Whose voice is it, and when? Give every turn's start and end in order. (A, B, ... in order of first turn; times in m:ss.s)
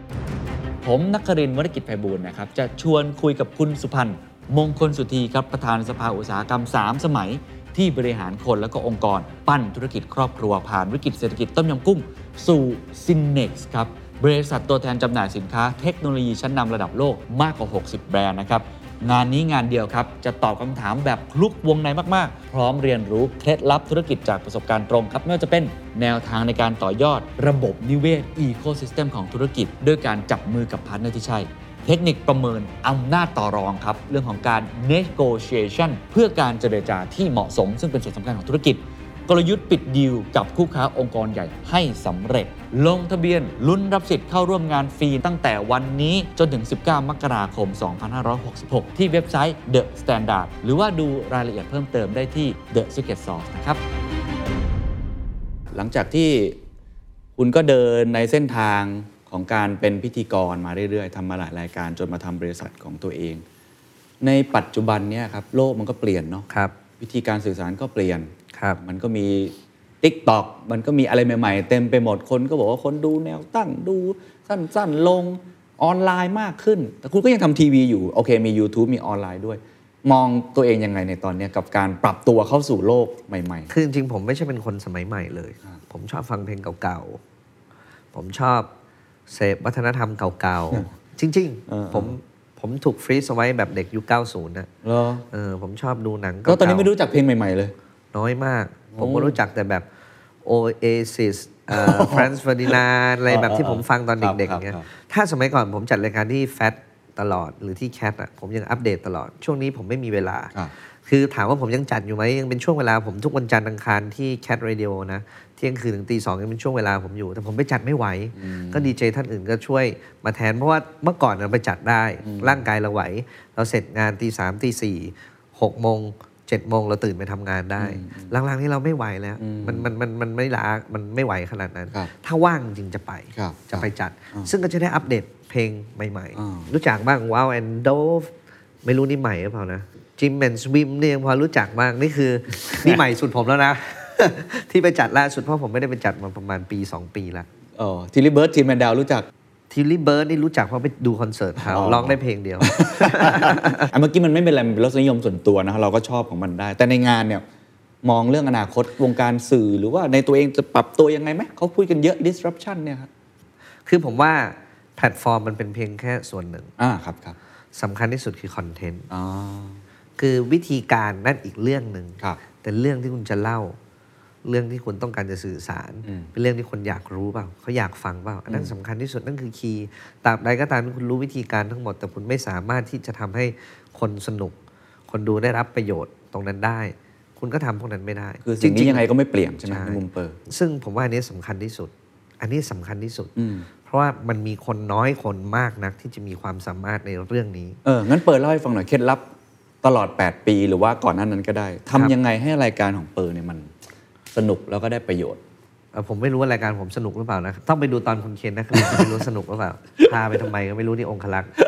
0:00.8-0:53.8 A
0:55.7-0:56.6 A
0:57.4-1:03.4 A
1:04.2-1:06.5 A
1:07.0-1:23.7 A
1:08.5-1:08.8 B
1:23.7-1:27.2 B
1:28.1-1:28.7 B
1:29.3-1:34.7 B
1:31.7-1:32.1 A
1:34.8-1:35.2 A
1:35.3-1:36.9 B
1:36.4-1:37.7 A
1:38.1-1:39.8 B
1:38.9-1:39.4 A
1:40.4-1:50.5 B
1:41.7-1:42.8 A
1:43.3-1:44.9 A
1:51.0-2:18.3 B
1:58.4-1:58.9 A
2:02.2-2:02.6 A
2:07.8-2:08.3 A
2:09.4-2:09.9 A
2:13.4-2:14.5 A
2:16.4-2:16.7 A
2:18.8-2:27.4 B
2:27.8-2:29.3 A
2:29.7-2:33.9 B
2:31.6-2:37.4 A
2:38.0-2:43.1 A
2:43.9-2:46.7 B
2:46.8-2:47.4 A
2:47.7-2:49.1 B
2:49.1-2:49.8 A
2:50.2-2:53.8 B
2:54.4-3:04.5 B
2:56.0-2:56.3 A
3:05.1-3:09.1 B
3:08.4-3:10.4 A
3:09.6-3:13.3 B
3:13.4-3:13.7 A
3:13.8-3:17.8 B
3:17.8-3:19.2 A
3:19.8-3:23.7 A
3:24.3-3:25.4 A
3:25.9-3:31.5 B
3:28.7-3:29.1 A